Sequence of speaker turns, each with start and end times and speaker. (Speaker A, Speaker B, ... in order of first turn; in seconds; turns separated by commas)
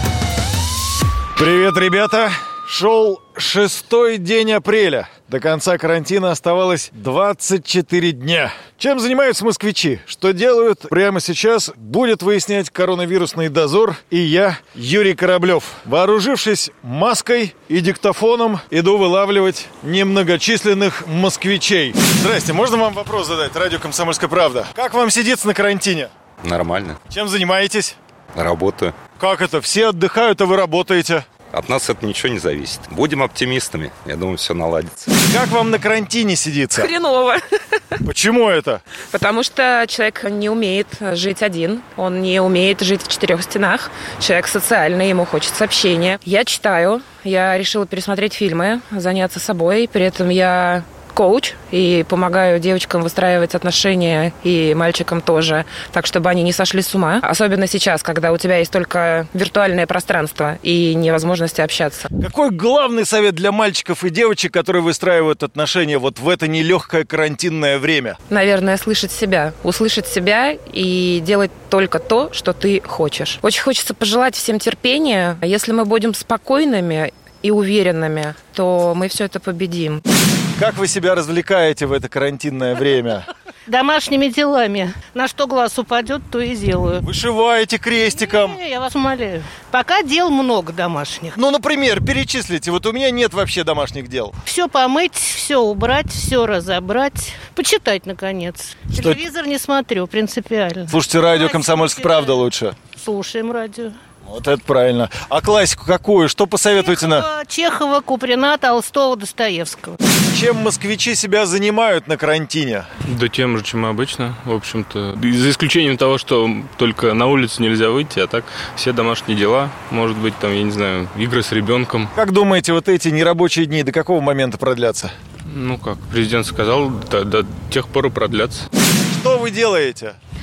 Speaker A: 1.4-26.1, Speaker B: 26.4-27.0, Speaker A: 27.1-28.0, Speaker B: 28.4-29.0, Speaker A: 29.1-31.3, Speaker B: 31.5-35.1, Speaker A: 35.3-36.9, Speaker C: 36.7-37.4, Speaker A: 38.0-38.8, Speaker C: 39.1-62.1, Speaker A: 62.2-68.2, Speaker C: 68.3-80.0, Speaker A: 80.6-83.3, Speaker D: 83.7-87.0, Speaker A: 87.0-88.6, Speaker D: 88.1-91.4, Speaker A: 91.3-94.3, Speaker D: 94.5-102.4, Speaker A: 98.9-99.2, Speaker A: 100.9-102.8, Speaker D: 102.9-104.0, Speaker A: 104.3-107.3, Speaker D: 106.8-110.0, Speaker A: 110.3-112.9, Speaker E: 113.0-122.1, Speaker A: 122.2-125.1, Speaker E: 125.5-128.7, Speaker A: 129.1-130.2